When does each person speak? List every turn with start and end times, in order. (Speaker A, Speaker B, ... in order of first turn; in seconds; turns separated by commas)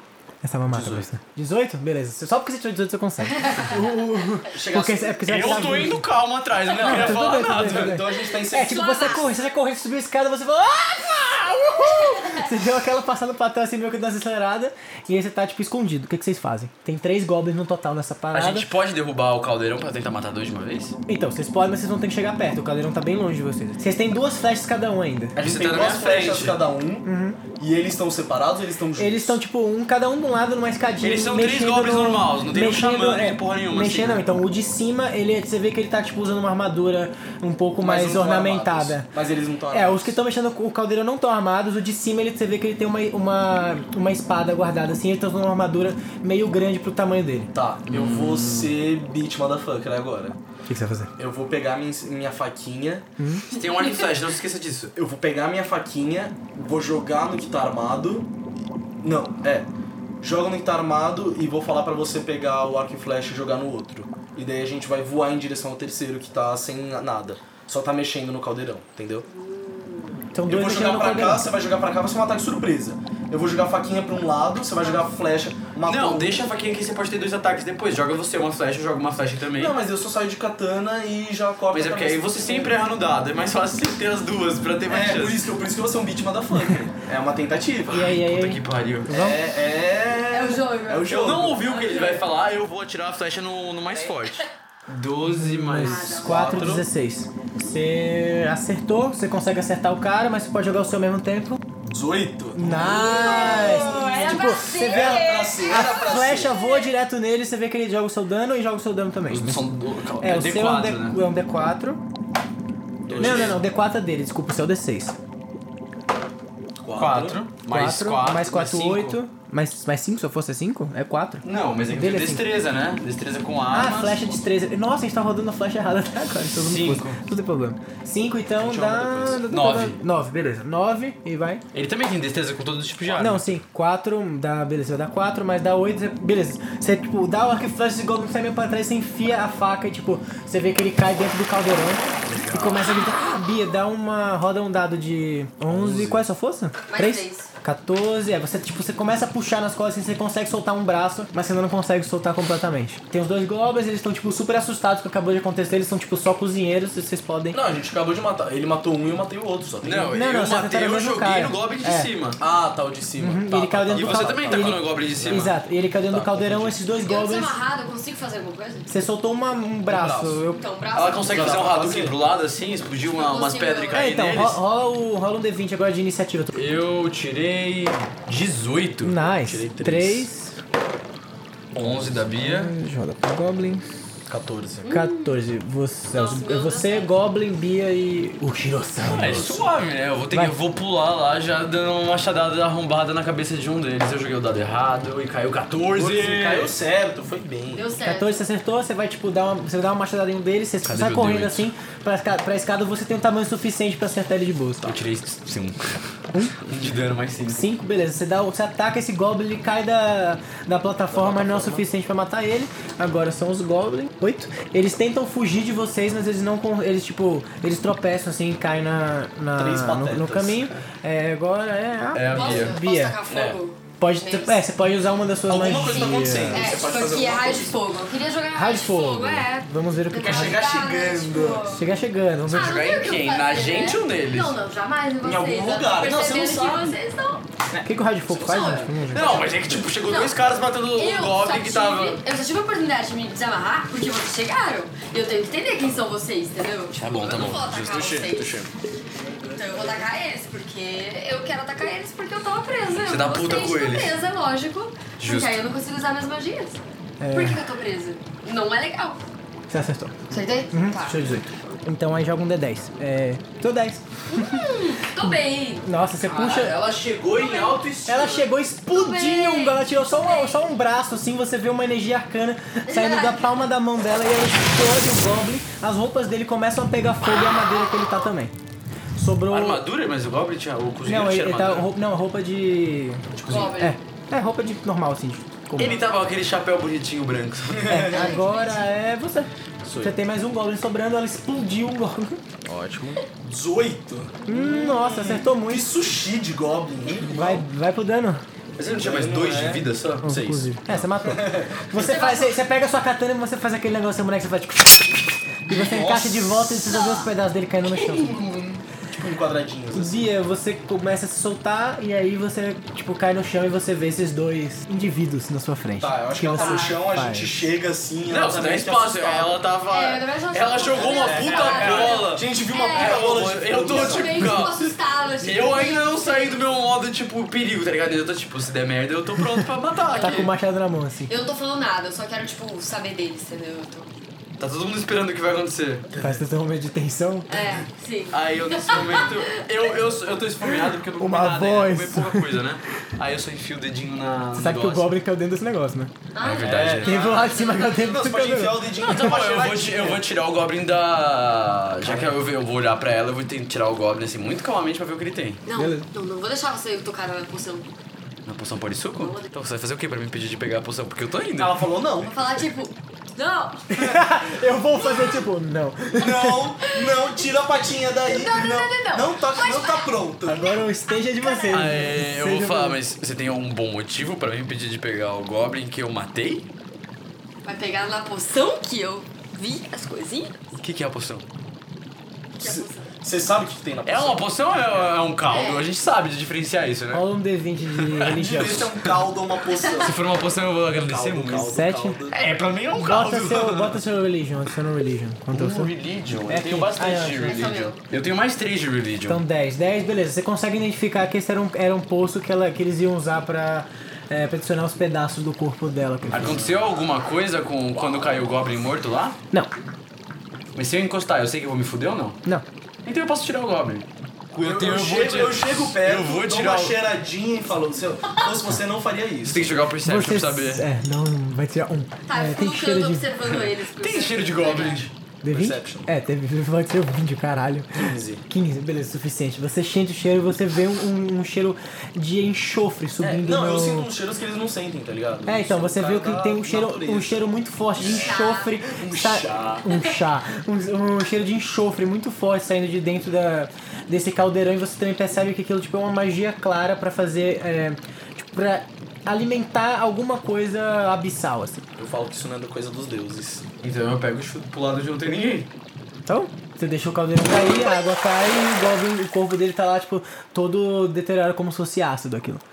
Speaker A: 0.4-6.0, Speaker B: 0.7-1.1, Speaker B: 4.5-5.9, Speaker C: 5.2-8.1, Speaker B: 6.7-9.3, Speaker A: 6.8-18.7, Speaker D: 8.2-9.4, Speaker C: 18.3-21.0, Speaker A: 21.1-25.4, Speaker B: 25.4-27.1, Speaker C: 25.4-26.6, Speaker A: 27.0-27.4, Speaker B: 27.6-29.4, Speaker A: 29.0-39.1, Speaker C: 31.0-34.2, Speaker B: 37.8-40.2, Speaker A: 39.7-47.5, Speaker B: 47.5-50.4, Speaker C: 47.9-48.7, Speaker A: 50.7-51.1, Speaker B: 51.2-53.0, Speaker A: 53.2-53.5, Speaker C: 53.5-54.9, Speaker B: 55.0-58.3, Speaker B: 59.0-59.7, Speaker B: 60.2-69.3, Speaker D: 69.3-70.2, Speaker A: 70.3-71.5, Speaker B: 70.5-76.4, Speaker C: 75.8-79.8, Speaker B: 79.5-82.7, Speaker C: 81.7-85.4, Speaker B: 84.9-88.1, Speaker A: 87.9-89.4, Speaker C: 87.9-89.1, Speaker B: 89.1-91.7, Speaker D: 90.3-92.2, Speaker C: 91.0-96.2, Speaker A: 95.2-101.6, Speaker D: 95.8-96.5, Speaker B: 96.2-96.9, Speaker B: 101.8-106.6, Speaker A: 102.5-112.0, Speaker D: 102.8-106.9, Speaker C: 109.3-111.2, Speaker B: 113.0-113.6, Speaker C: 113.1-113.5, Speaker A: 113.2-115.2, Speaker B: 116.8-117.4, Speaker C: 117.0-119.2, Speaker A: 117.7-122.4, Speaker C: 121.4-124.3, Speaker A: 123.7-131.6, Speaker C: 126.5-127.2, Speaker B: 128.6-129.4, Speaker C: 129.5-130.0, Speaker C: 131.7-133.6, Speaker A: 133.1-157.6, Speaker C: 142.3-142.9, Speaker B: 145.7-146.2, Speaker D: 146.9-147.5, Speaker B: 157.5-160.1, Speaker C: 159.8-162.4, Speaker A: 160.1-162.1, Speaker B: 162.4-165.5, Speaker A: 163.2-167.6, Speaker C: 163.9-165.5, Speaker B: 166.1-166.8, Speaker D: 167.1-168.9, Speaker A: 168.9-170.6, Speaker B: 169.9-170.4, Speaker D: 170.5-171.5, Speaker C: 170.9-174.6, Speaker B: 171.3-172.2, Speaker D: 173.0-174.1, Speaker A: 173.9-176.5, Speaker C: 176.5-179.1, Speaker A: 179.0-180.6, Speaker B: 179.3-180.3, Speaker B: 181.7-182.2, Speaker C: 181.7-182.7, Speaker A: 182.4-184.0, Speaker B: 184.3-184.9, Speaker D: 184.8-185.4, Speaker A: 184.9-189.5, Speaker D: 186.1-187.1, Speaker C: 189.1-196.7, Speaker B: 189.2-189.6, Speaker B: 195.9-197.9, Speaker D: 197.7-198.4, Speaker A: 198.0-204.9, Speaker C: 200.8-201.7, Speaker C: 204.8-206.0, Speaker C: 206.6-207.6, Speaker A: 207.5-223.2, Speaker B: 211.1-211.8, Speaker B: 219.5-220.8, Speaker C: 222.1-222.8, Speaker D: 222.3-224.6, Speaker B: 223.3-223.6, Speaker A: 224.0-226.7, Speaker B: 225.5-227.8, Speaker D: 225.7-231.8, Speaker A: 228.5-230.7, Speaker B: 230.2-231.8, Speaker A: 231.7-232.8, Speaker C: 232.5-234.6, Speaker D: 232.5-237.4, Speaker B: 235.2-237.0, Speaker B: 237.7-239.9, Speaker A: 237.8-239.3, Speaker D: 238.4-239.5, Speaker C: 239.1-242.2, Speaker D: 240.0-240.4, Speaker D: 240.9-248.6, Speaker C: 246.9-248.3, Speaker B: 247.7-248.7, Speaker D: 249.5-256.8, Speaker C: 253.0-254.2, Speaker C: 255.2-255.6, Speaker A: 257.2-257.6, Speaker D: 257.3-259.2, Speaker A: 259.7-264.6, Speaker D: 260.3-261.4, Speaker D: 264.3-265.8, Speaker A: 265.2-266.8, Speaker C: 266.2-268.5, Speaker D: 267.3-267.8, Speaker A: 268.1-278.5, Speaker D: 268.9-270.6, Speaker D: 272.9-273.6, Speaker A: 279.1-279.8, Speaker C: 279.5-281.9, Speaker A: 281.0-286.0, Speaker C: 283.4-283.8, Speaker B: 283.4-283.7, Speaker D: 283.5-283.9, Speaker C: 285.8-288.0, Speaker B: 287.7-288.4, Speaker A: 287.9-292.4, Speaker D: 288.0-288.9, Speaker C: 292.7-293.2, Speaker B: 293.4-297.6, Speaker A: 294.4-295.9, Speaker A: 297.2-298.4, Speaker C: 298.8-301.0, Speaker B: 298.9-301.9, Speaker A: 300.2-308.3, Speaker D: 301.9-302.6, Speaker B: 305.7-306.8, Speaker D: 306.8-307.3, Speaker B: 308.0-310.3, Speaker A: 309.9-317.6, Speaker B: 316.0-319.5, Speaker D: 316.5-317.0, Speaker C: 318.3-330.5, Speaker D: 319.9-326.5, Speaker B: 320.9-324.5, Speaker D: 330.1-330.5, Speaker A: 330.2-331.3, Speaker D: 331.3-334.1, Speaker C: 334.6-336.1, Speaker B: 336.1-336.4, Speaker A: 336.2-337.5, Speaker D: 337.5-339.9, Speaker C: 338.3-345.1, Speaker A: 341.1-342.6, Speaker A: 344.5-346.1, Speaker D: 346.3-348.1, Speaker C: 346.4-347.4, Speaker B: 346.6-350.2, Speaker A: 347.0-349.0, Speaker C: 349.0-355.6, Speaker B: 352.0-352.4, Speaker D: 355.6-357.9, Speaker A: 355.7-356.1, Speaker C: 358.4-361.8, Speaker D: 359.1-359.5, Speaker B: 361.6-362.4, Speaker D: 362.2-363.9, Speaker A: 363.9-366.6, Speaker D: 364.9-365.4, Speaker B: 366.1-370.8, Speaker D: 366.9-367.4, Speaker D: 368.2-372.1, Speaker A: 370.5-373.0, Speaker C: 371.7-376.7, Speaker D: 377.6-380.6, Speaker C: 380.8-381.4, Speaker D: 382.6-383.1, Speaker B: 382.6-384.5, Speaker C: 384.1-387.2, Speaker D: 385.5-385.9, Speaker A: 387.1-388.9, Speaker C: 388.0-388.3, Speaker B: 388.2-390.2, Speaker D: 389.7-390.1, Speaker C: 389.9-391.7, Speaker B: 391.1-392.4, Speaker A: 391.6-392.2, Speaker C: 392.3-394.0, Speaker A: 392.9-395.9, Speaker C: 395.5-399.4, Speaker A: 396.4-397.8, Speaker D: 397.4-398.0, Speaker A: 399.3-406.6, Speaker C: 406.3-409.4, Speaker B: 406.3-406.7, Speaker B: 408.0-408.8, Speaker C: 410.7-412.4, Speaker C: 413.0-417.0, Speaker B: 414.5-419.8, Speaker C: 419.4-420.9, Speaker A: 420.0-423.3, Speaker D: 422.3-425.1, Speaker C: 423.5-425.1, Speaker B: 424.8-426.1, Speaker A: 425.4-434.1, Speaker B: 427.9-428.4, Speaker B: 433.2-438.4, Speaker A: 435.4-451.8, Speaker D: 438.2-438.8, Speaker B: 438.9-439.9, Speaker B: 452.0-453.6, Speaker C: 453.8-455.7, Speaker A: 456.3-462.6